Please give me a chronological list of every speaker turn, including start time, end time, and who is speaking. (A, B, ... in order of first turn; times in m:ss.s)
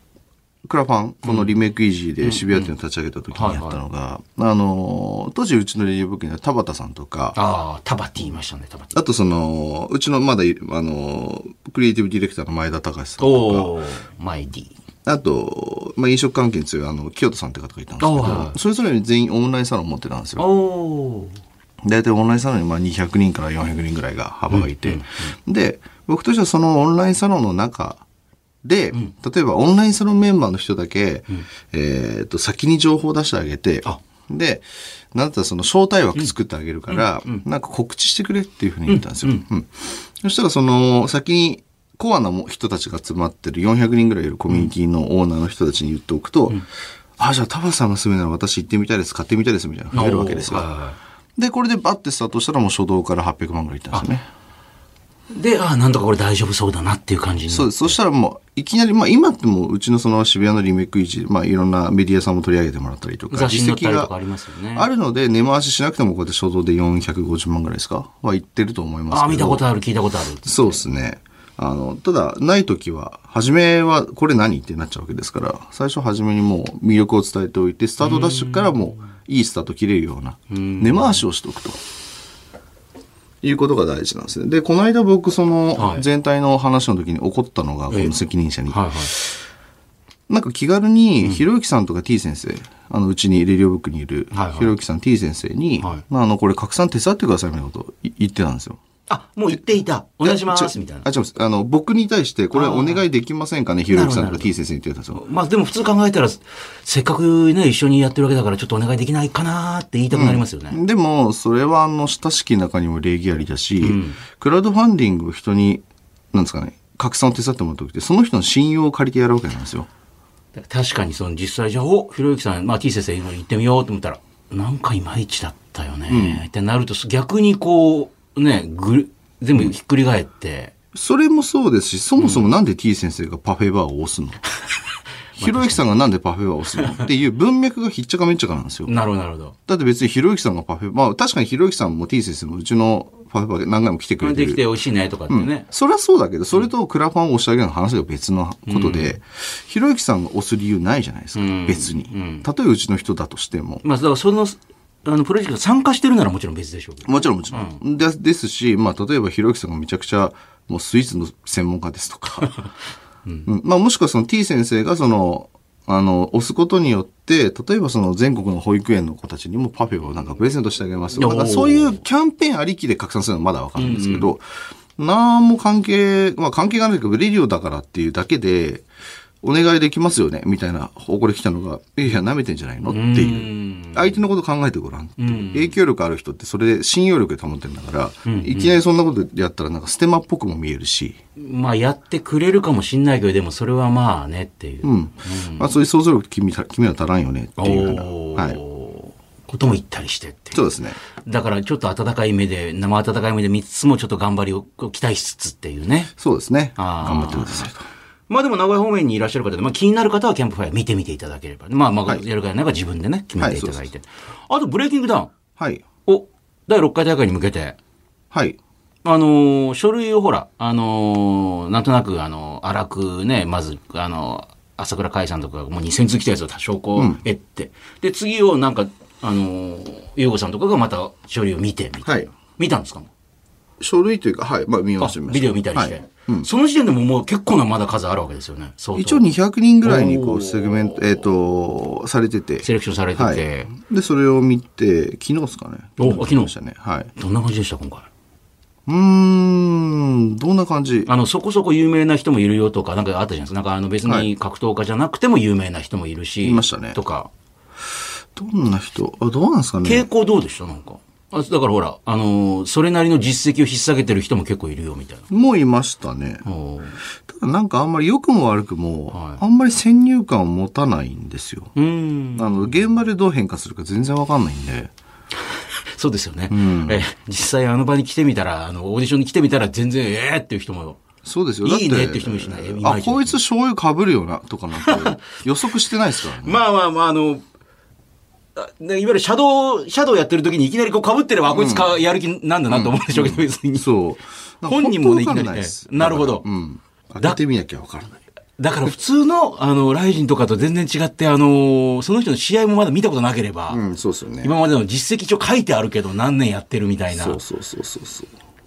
0:00.6-0:07.4 A
0:01.2-0:01.6 B
0:02.2-0:02.7 B
0:03.3-0:03.8 B
0:07.3-0:09.0 B
0:08.9-0:13.7 A
0:13.2-0:14.7 B
0:15.0-0:20.5 A
0:18.0-0:18.6 B
0:20.4-0:21.4 B
0:21.8-0:28.0 A
0:24.5-0:25.3 B
0:28.6-0:46.6 A
0:36.9-0:37.4 B
0:38.9-0:39.4 B
0:47.2-0:50.8 A
0:49.9-0:50.9 B
0:51.4-0:54.2 A
0:55.3-0:58.0 B
0:57.5-1:04.1 A
1:03.3-1:04.9 B
1:04.7-1:09.6 A
1:09.1-1:10.8 B
1:10.4-1:21.8 A
1:18.0-1:19.0 B
1:20.5-1:21.2 B
1:23.4-1:29.4 A
1:25.8-1:26.0 B
1:27.9-1:28.1 B
1:28.7-1:29.1 B
1:30.3-1:38.8 A
1:34.3-1:34.8 B
1:39.1-1:41.1 B
1:40.2-1:45.2 A
1:42.5-1:43.0 B
1:43.9-1:44.5 B
1:45.1-1:50.8 B
1:50.1-1:59.9 A
1:53.8-1:54.2 B
2:00.5-2:10.7 B
2:06.1-2:06.4 A
2:10.9-2:14.4 A
2:12.2-2:12.5 B
2:15.4-2:15.8 B
2:15.4-2:19.0 A
2:16.8-2:17.0 B
2:18.9-2:19.5 B
2:19.7-2:24.6 A
2:24.2-2:25.7 B
2:25.3-2:33.8 A
2:28.7-2:29.2 B
2:31.3-2:32.5 B
2:33.8-2:37.8 B
2:37.0-2:42.6 A
2:43.4-2:54.4 A
2:51.2-2:52.0 B
2:53.8-2:54.3 B
2:55.0-2:58.8 A
2:59.4-3:11.2 A
3:02.8-3:04.2 B
3:05.2-3:05.8 B
3:08.2-3:08.8 B
3:11.4-3:15.8 B
3:14.8-3:18.6 A
3:17.6-3:20.6 B
3:20.5-3:21.0 A
3:21.2-3:26.1 B
3:26.2-3:27.8 A
3:26.8-3:27.7 B
3:28.3-3:35.3 B
3:33.4-3:33.8 A
3:35.6-3:35.8 A
3:36.1-3:37.8 B
3:38.3-3:38.6 A
3:39.0-3:53.1 B
3:47.0-3:47.2 A
3:53.8-3:56.5 A
3:55.0-3:59.3 B
3:58.9-4:07.1 A
3:59.8-4:01.2 B
4:02.6-4:03.7 B
4:06.0-4:06.5 B
4:07.2-4:08.1 B
4:08.9-4:11.1 A
4:11.0-4:17.3 B
4:16.4-4:17.0 A
4:18.4-4:20.1 A
4:19.8-4:25.2 B
4:25.3-4:26.4 A
4:26.4-4:27.0 B
4:27.2-4:31.8 A
4:29.1-4:29.4 B
4:31.8-4:32.7 B
4:32.3-4:34.9 A
4:35.5-4:41.0 B
4:36.5-4:37.0 A
4:41.2-4:46.6 A
4:41.6-4:43.4 B
4:44.8-4:45.4 B
4:46.3-4:47.4 B
4:48.6-4:53.9 B
4:51.5-4:51.9 A
4:52.7-4:58.2 A
4:54.7-4:56.4 B
4:58.6-5:03.8 B
5:03.7-5:04.5 A
5:04.4-5:07.4 B
5:07.1-5:08.3 A